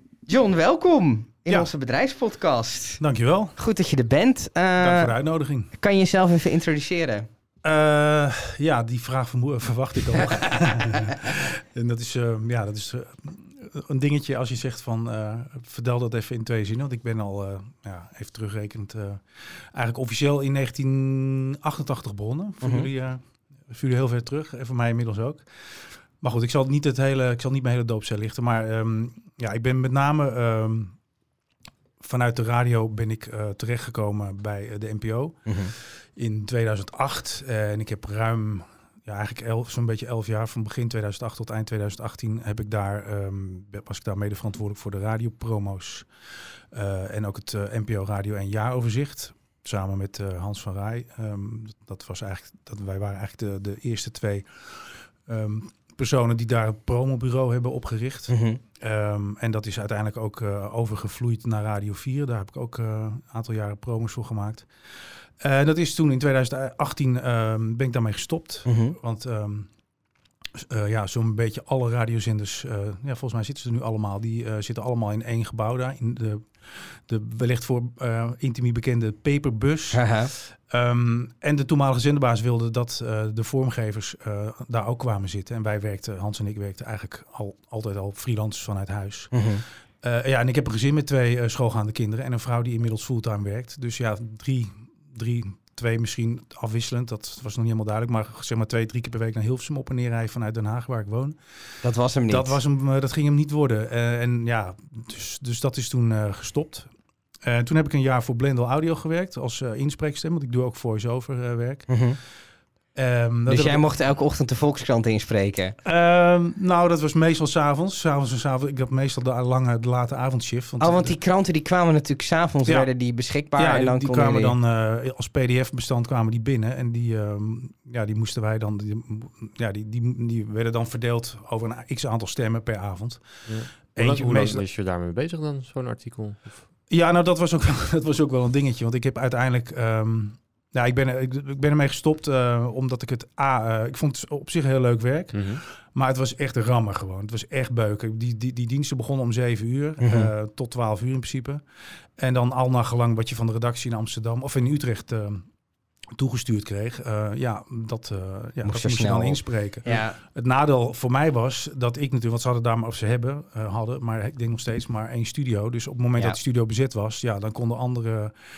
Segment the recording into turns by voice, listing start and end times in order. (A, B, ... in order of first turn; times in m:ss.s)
0:00.3-0:03.0 A
0:03.0-0:03.5 B
0:03.6-0:05.1 A
0:04.8-0:05.7 B
0:05.8-0:07.3 A
0:07.6-0:19.2 B
0:10.2-0:11.2 A
0:19.7-0:25.4 B
0:22.6-0:22.9 A
0:26.2-0:30.9 B
0:32.0-0:35.5 B
0:35.5-0:35.7 A
0:36.2-0:46.1 B
0:46.7-0:54.5 B
0:55.3-1:04.7 B
0:58.3-0:58.6 A
1:05.4-1:09.7 B
1:08.6-1:09.0 A
1:10.6-1:29.3 B
1:19.9-1:20.3 A
1:29.3-1:29.6 A
1:30.0-1:41.4 B
1:41.8-1:42.6 A
1:42.3-1:46.9 B
1:47.4-1:51.8 B
1:51.9-1:52.2 A
1:53.0-1:53.8 B
1:53.5-1:55.8 A
1:55.8-2:01.1 B
2:00.8-2:04.5 A
2:03.6-2:13.2 B
2:13.5-2:16.6 C
2:13.8-2:14.6 B
2:16.9-2:31.6 B
2:25.3-2:25.6 C
2:30.0-2:30.3 A
2:32.2-2:35.4 B
2:36.2-2:48.3 B
2:38.6-2:40.2 A